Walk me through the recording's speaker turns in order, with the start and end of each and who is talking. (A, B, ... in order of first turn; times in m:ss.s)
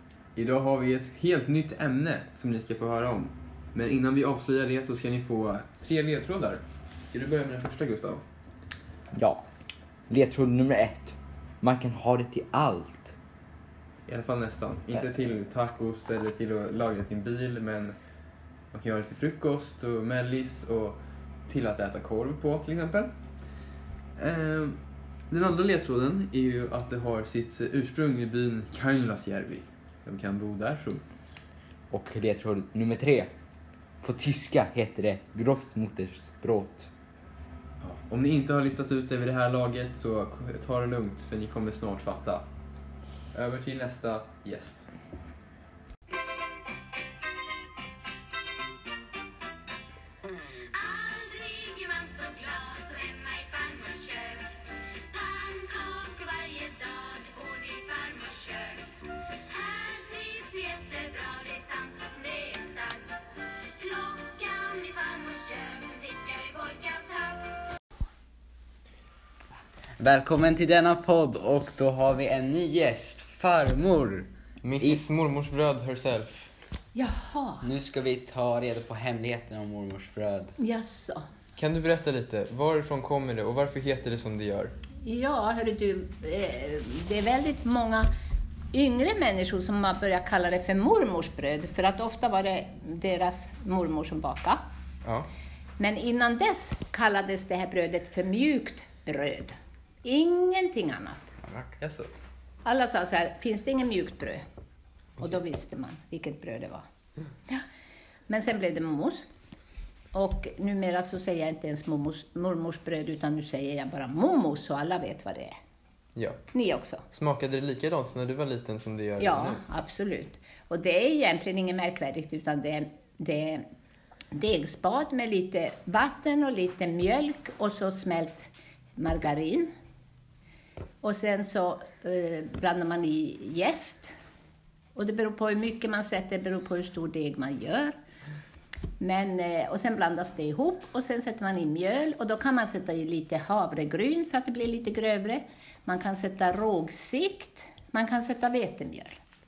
0:00.3-0:08.2 A
0:09.1-0:09.4 B
0:10.1-0:13.1 B
0:14.1-0:18.0 A
0:18.7-0:23.1 A
0:24.2-0:24.8 A
0:25.3-0:31.0 A
0:31.9-0:33.3 B
0:34.0-0:36.9 B
0:37.8-0:42.5 A
0:43.3-0:44.9 A
0:50.7-0:54.4 C
0:55.1-0:58.8 C
0:59.5-1:03.2 C
1:03.8-1:07.5 C
1:10.0-1:14.3 D
1:14.6-1:16.5 A
1:17.0-1:17.6 E
1:17.6-1:20.5 D
1:20.6-1:21.2 E
1:21.6-1:24.8 A
1:25.0-1:28.1 E
1:28.7-1:34.6 E
1:35.8-1:39.5 E
1:40.0-1:41.3 E
1:41.5-1:41.7 D
1:41.8-1:42.1 A
1:42.6-1:44.4 E
1:45.2-1:46.8 E
1:48.3-1:49.3 E
1:50.1-1:55.5 E
1:56.2-1:56.5 A
1:56.5-1:57.0 E
1:57.1-1:59.6 A
1:59.2-2:03.6 E
2:04.3-2:09.7 E
2:11.0-2:14.1 E
2:15.0-2:17.9 E
2:19.0-2:29.2 E